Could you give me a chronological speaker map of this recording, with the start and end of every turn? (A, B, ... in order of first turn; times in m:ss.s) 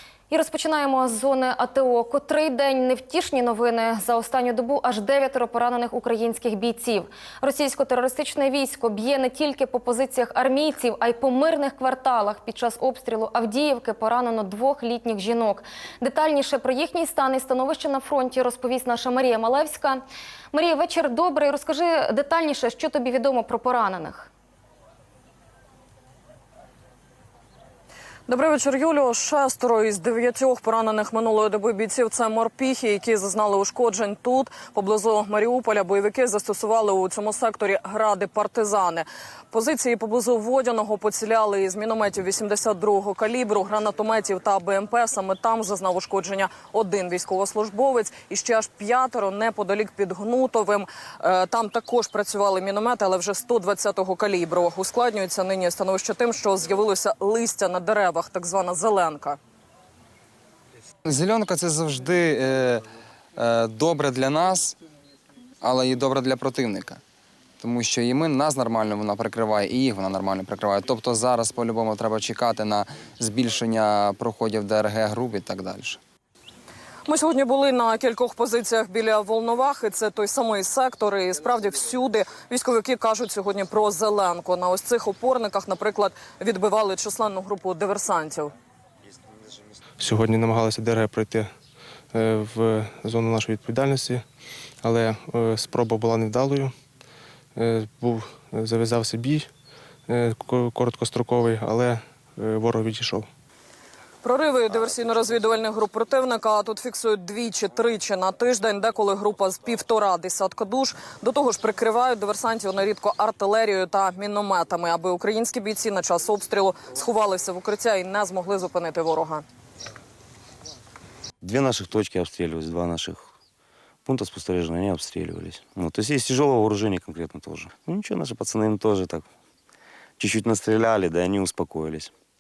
0:00.3-0:24.3 A
0:28.3-0:59.4 B
1:01.1-1:02.8 C
1:03.4-1:04.8 C
1:05.6-1:07.0 C
1:07.6-1:16.0 C
1:17.1-1:28.5 B
1:30.0-1:31.5 D
1:32.1-1:34.2 D
1:34.8-1:36.7 D
1:37.6-1:39.5 D
1:40.1-1:43.3 D
1:44.2-1:59.4 B
2:01.4-2:03.3 E
2:04.0-2:09.3 E
2:10.2-2:12.1 E